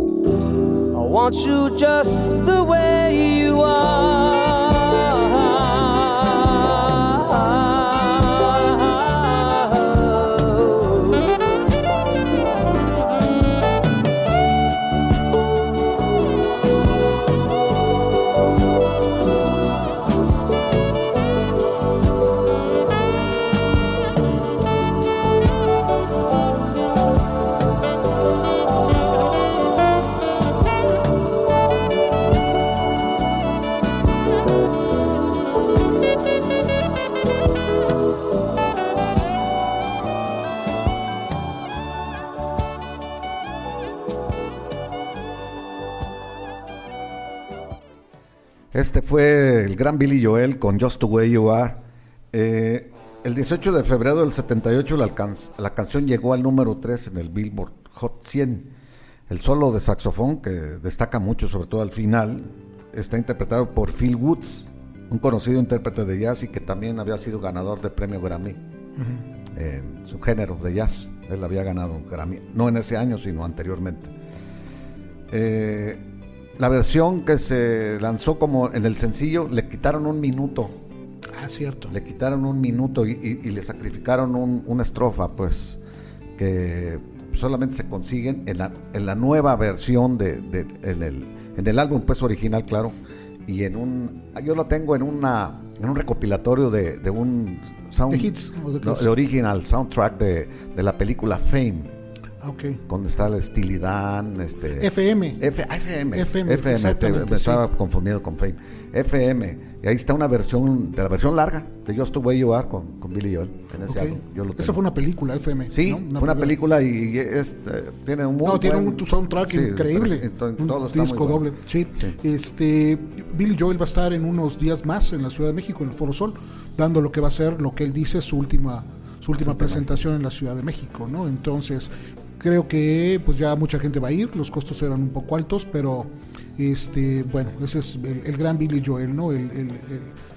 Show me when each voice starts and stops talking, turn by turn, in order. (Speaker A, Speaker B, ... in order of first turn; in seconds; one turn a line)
Speaker A: 0.9-11.4
Speaker B: 48.7-58.7
Speaker B: 59.3-68.6
Speaker C: 69.0-69.2
Speaker B: 69.5-74.1
Speaker B: 75.3-76.0
Speaker B: 76.6-80.8
Speaker C: 81.3-81.9
Speaker B: 81.9-85.8
Speaker B: 86.4-101.9
Speaker C: 98.1-99.1
Speaker C: 102.4-102.8
Speaker B: 102.9-114.8
Speaker C: 104.8-105.4
Speaker C: 106.1-107.6
Speaker C: 113.9-116.5
Speaker B: 115.7-122.2
Speaker C: 118.4-140.1
Speaker B: 129.4-130.0